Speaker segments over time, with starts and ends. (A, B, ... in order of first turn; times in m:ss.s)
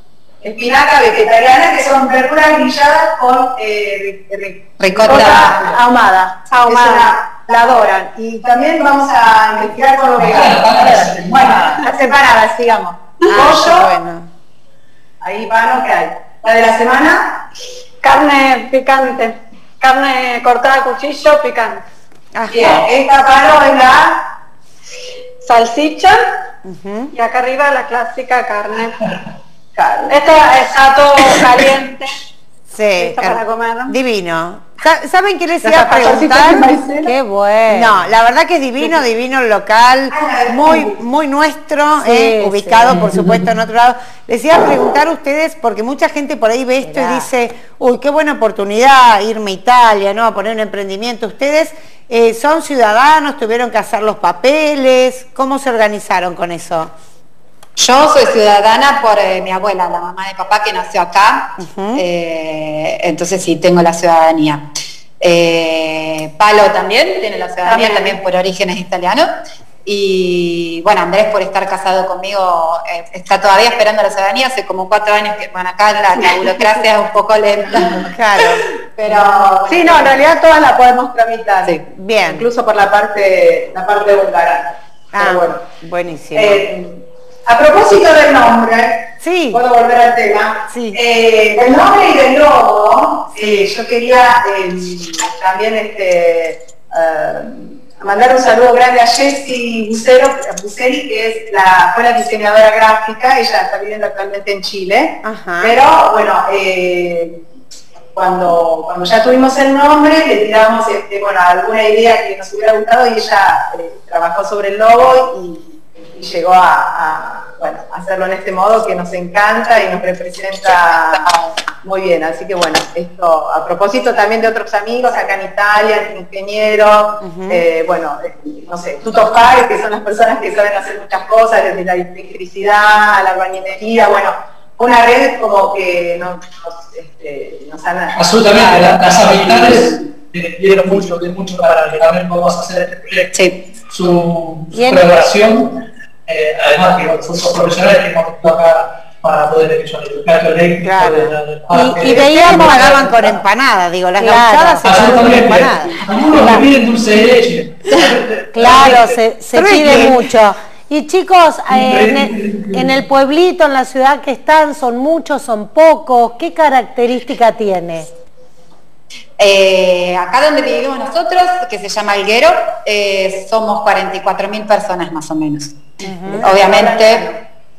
0:00.4-0:13.9 A
0:04.8-0:05.6 B
0:06.5-0:07.1 C
0:10.2-0:11.8 D
0:13.3-0:14.3 E
0:15.2-0:17.4 A
0:18.0-0:21.8 C
0:22.3-0:22.8 E
0:22.5-0:24.3 A
0:25.4-0:26.4 C
0:26.6-0:27.1 E
0:27.1-0:29.0 C
0:29.8-0:30.3 A
0:30.1-0:32.1 C
0:32.7-0:36.8 E
0:33.0-0:34.0 C
0:35.6-0:37.1 A
0:37.0-0:38.0 F
0:37.7-0:56.9 E
0:40.2-0:40.8 A
0:42.0-0:43.4 F
0:46.8-0:47.3 F
0:57.8-1:04.7 B
1:01.6-1:02.0 E
1:05.2-1:09.3 B
1:07.7-1:08.2 C
1:09.8-1:18.1 B
1:18.0-1:18.6 E
1:19.0-1:20.2 B
1:19.1-1:25.6 A
1:21.9-1:22.5 E
1:25.1-1:26.7 E
1:26.4-1:47.4 A
1:29.2-1:29.6 E
1:30.7-1:31.0 E
1:45.2-1:45.8 E
1:48.1-2:01.3 A
2:01.8-2:19.3 A
2:07.2-2:07.6 E
2:18.2-2:23.3 D
2:23.3-2:23.7 B
2:23.8-2:33.4 D
2:24.7-2:25.1 F
2:30.8-2:31.4 E
2:31.7-2:33.1 F
2:32.0-2:36.0 E
2:34.2-2:35.6 F
2:34.8-2:39.2 D
2:36.3-2:36.7 F
2:38.5-2:48.1 F
2:39.6-2:40.2 E
2:41.7-2:43.0 D
2:49.4-2:55.8 B
2:56.0-2:56.4 F
2:56.0-2:56.4 E
2:56.3-2:57.4 A
2:56.4-2:57.3 B